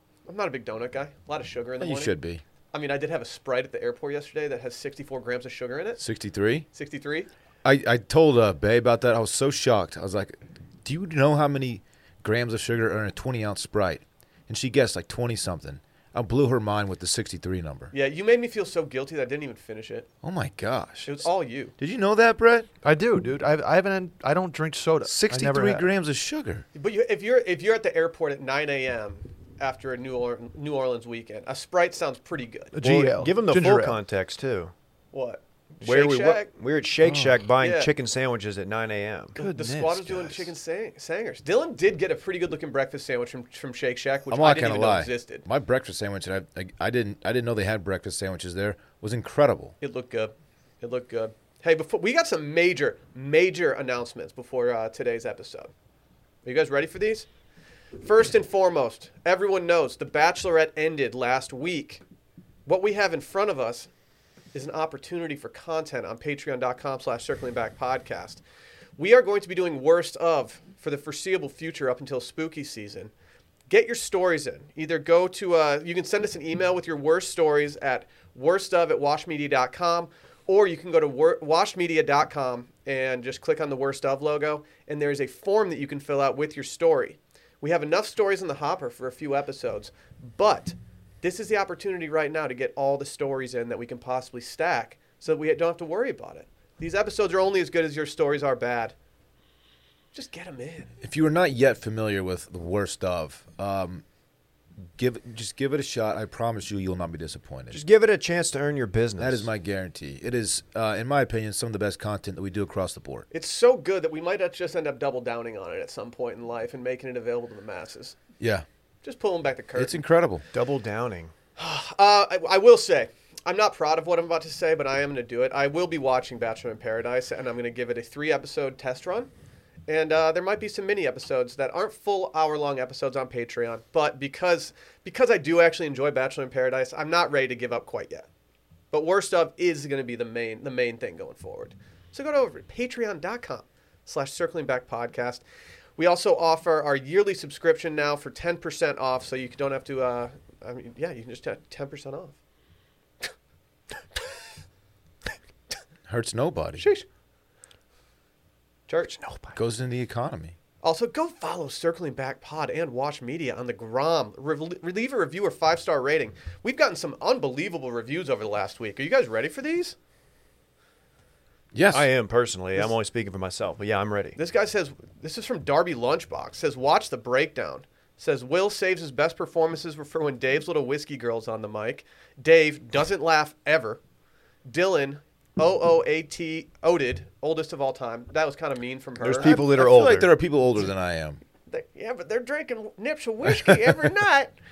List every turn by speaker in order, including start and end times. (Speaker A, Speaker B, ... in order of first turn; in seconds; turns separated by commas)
Speaker A: 0.2-2.1, Speaker B: 1.8-2.4, Speaker A: 2.7-6.0, Speaker B: 6.0-6.7, Speaker A: 6.7-7.3, Speaker B: 7.6-17.9, Speaker A: 17.9-20.1, Speaker B: 20.2-21.2, Speaker A: 21.1-21.7, Speaker B: 21.8-22.7, Speaker C: 22.8-25.9, Speaker B: 25.0-26.6, Speaker A: 26.7-32.7, Speaker C: 32.7-34.0, Speaker D: 32.8-34.7, Speaker A: 35.1-36.5, Speaker D: 35.8-39.4, Speaker B: 37.0-37.4, Speaker A: 37.6-37.9, Speaker A: 39.3-45.5, Speaker C: 39.4-40.5, Speaker B: 44.3-49.8, Speaker A: 49.8-55.7, Speaker A: 56.4-57.3, Speaker A: 58.0-62.0, Speaker A: 62.6-63.9, Speaker A: 64.5-68.4, Speaker A: 69.0-73.1, Speaker A: 73.7-98.9, Speaker A: 100.1-100.9, Speaker B: 101.0-104.0, Speaker B: 104.9-107.8, Speaker D: 107.7-109.5, Speaker B: 109.2-113.3, Speaker A: 113.3-118.2, Speaker B: 118.4-118.6, Speaker A: 119.0-119.9, Speaker B: 119.8-120.4, Speaker D: 120.5-121.3, Speaker A: 121.6-129.3, Speaker A: 129.9-138.2, Speaker A: 138.9-145.4, Speaker A: 146.0-152.3, Speaker B: 156.1-156.9, Speaker A: 156.8-157.1, Speaker A: 158.9-159.2, Speaker D: 159.2-159.5, Speaker B: 159.5-160.5, Speaker A: 160.8-169.9, Speaker B: 171.7-172.1, Speaker D: 171.9-174.4, Speaker A: 174.3-184.0, Speaker A: 184.6-189.6, Speaker D: 189.2-190.3, Speaker B: 189.4-191.4, Speaker A: 191.7-194.5